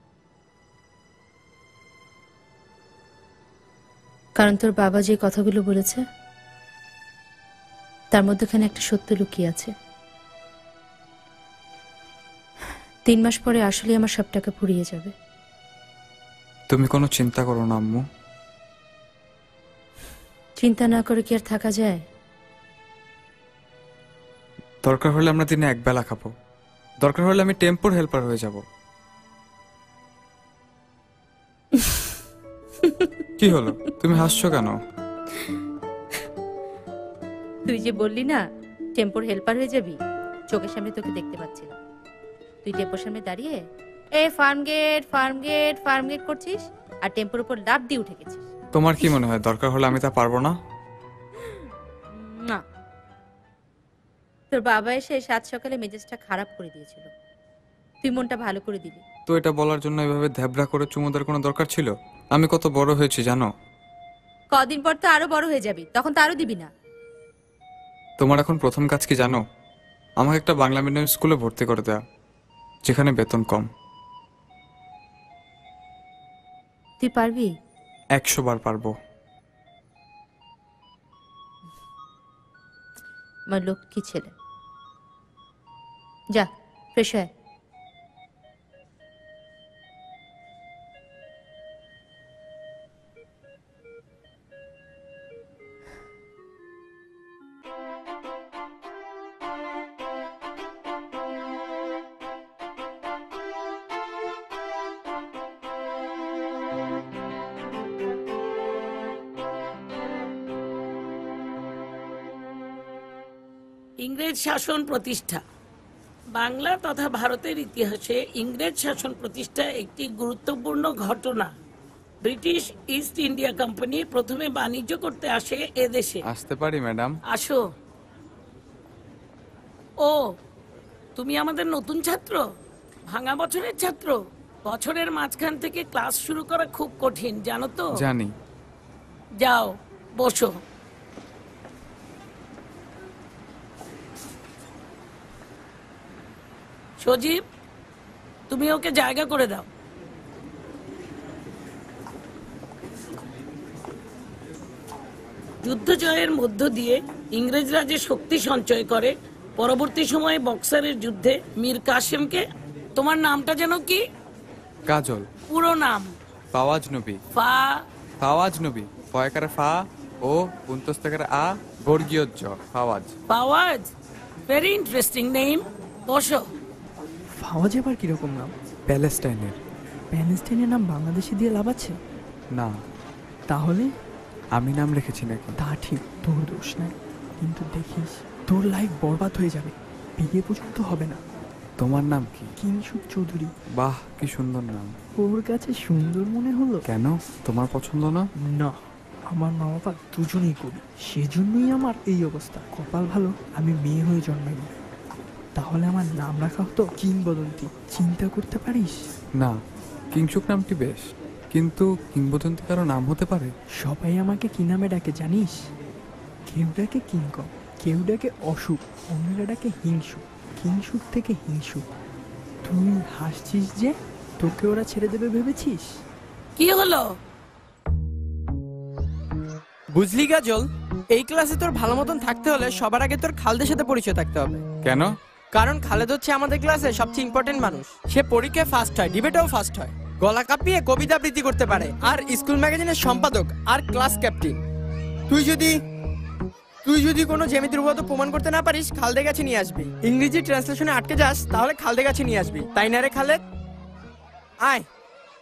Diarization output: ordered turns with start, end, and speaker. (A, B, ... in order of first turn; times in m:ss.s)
0:04.4-0:06.0 A
0:08.1-0:09.7 A
0:13.0-0:15.1 A
0:16.7-0:18.0 B
0:20.6-0:22.0 A
0:24.8-0:26.3 B
0:27.0-0:28.6 B
0:33.4-0:34.8 B
0:37.7-0:38.4 A
0:39.0-0:40.0 A
0:40.5-0:41.8 A
0:42.6-0:43.6 A
0:44.2-0:48.5 A
0:48.7-0:50.6 B
0:52.1-0:52.6 A
0:54.5-0:57.1 A
0:58.0-0:59.0 A
0:59.3-1:03.5 B
1:04.5-1:06.7 A
1:08.2-1:09.4 B
1:10.2-1:12.0 B
1:12.9-1:13.7 B
1:17.0-1:17.5 A
1:18.2-1:18.9 B
1:23.5-1:24.3 A
1:26.3-1:27.3 A
1:54.0-1:55.4 C
1:56.4-2:01.5 C
2:02.2-2:06.2 C
2:06.3-2:07.2 B
2:07.3-2:07.6 C
2:11.2-2:12.4 C
2:13.1-2:17.9 C
2:17.9-2:18.3 B
2:19.4-2:20.5 C
2:27.0-2:27.4 C
2:28.5-2:29.7 C
2:35.6-2:42.4 C
2:43.0-2:44.0 C
2:44.9-2:45.3 B
2:45.5-2:46.1 C
2:46.5-2:47.2 B
2:47.3-2:47.7 C
2:48.2-2:53.1 B
2:53.3-2:53.9 C
2:54.5-2:56.4 C
2:57.4-2:58.5 D
2:58.9-2:59.6 B
3:00.1-3:01.9 D
3:03.5-3:03.9 D
3:04.6-3:05.5 B
3:05.6-3:11.2 D
3:11.8-3:12.5 B
3:12.6-3:13.5 D
3:13.8-3:15.0 B
3:15.2-3:16.8 D
3:16.8-3:18.3 B
3:18.4-3:18.8 D
3:19.3-3:24.7 D
3:25.6-3:29.0 D
3:30.1-3:33.5 B
3:33.8-3:35.6 D
3:36.5-3:41.8 D
3:42.6-3:46.0 D
3:46.6-3:47.0 C
3:49.9-3:54.6 E
3:54.8-3:55.1 B
3:55.5-4:04.6 E
4:05.3-4:05.8 E
4:06.8-4:13.4 E